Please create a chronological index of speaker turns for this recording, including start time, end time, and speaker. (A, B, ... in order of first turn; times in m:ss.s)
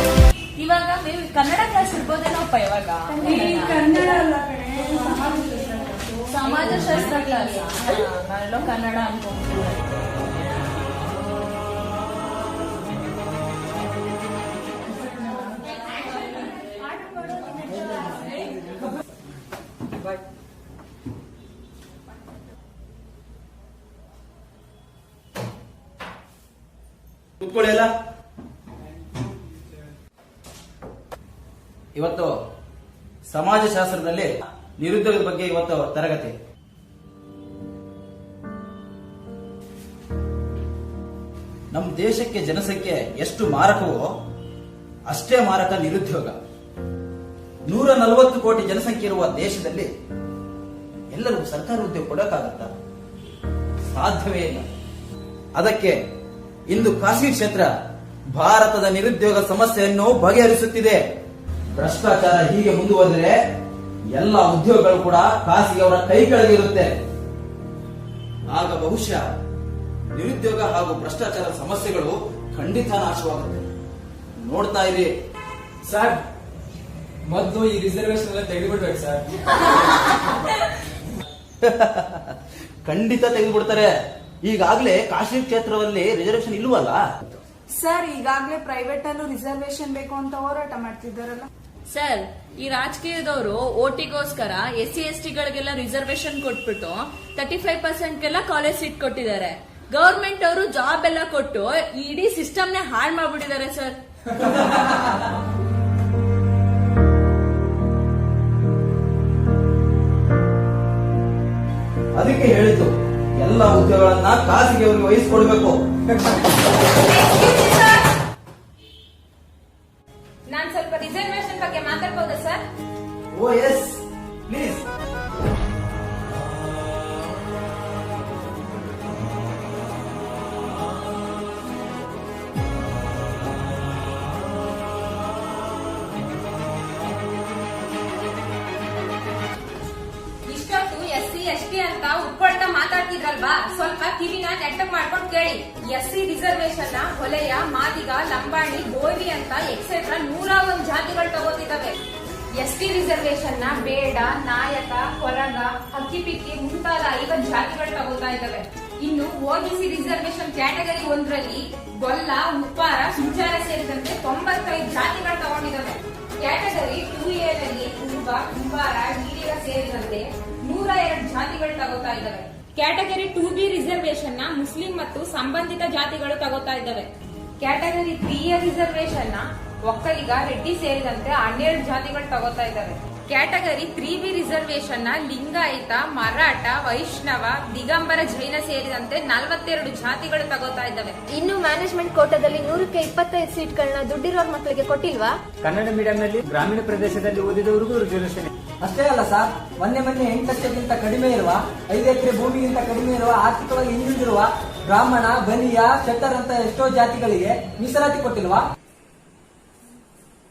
0:00.6-0:04.2 A
0:03.1-0:07.3 B
0:06.3-0:09.8 A
0:27.4-0:27.9 C
0:32.0-0:32.3 C
0:33.3-0:36.3 C
0:41.7-0:44.0 C
0:45.1-0:46.4 C
0:47.7-0:49.9 C
0:51.1-0:52.7 C
0:53.9-0:54.6 C
0:55.6-0:56.0 C
0:56.7-0:57.7 C
0:58.3-1:01.0 C
1:01.7-1:03.4 C
1:04.1-1:06.9 C
1:08.5-1:09.2 C
1:10.1-1:13.7 C
1:14.4-1:15.1 C
1:17.4-1:18.2 D
1:21.6-1:23.9 C
1:24.4-1:27.4 C
1:27.7-1:31.5 B
1:31.9-1:44.7 A
1:52.1-1:55.8 C
1:56.8-1:58.1 E
2:00.5-2:02.6 E
2:03.3-2:04.8 C
2:20.5-2:32.0 E
2:32.5-2:57.1 E
2:57.6-3:11.2 E
3:11.3-3:15.4 F
3:15.6-3:18.5 D
3:18.8-3:28.6 G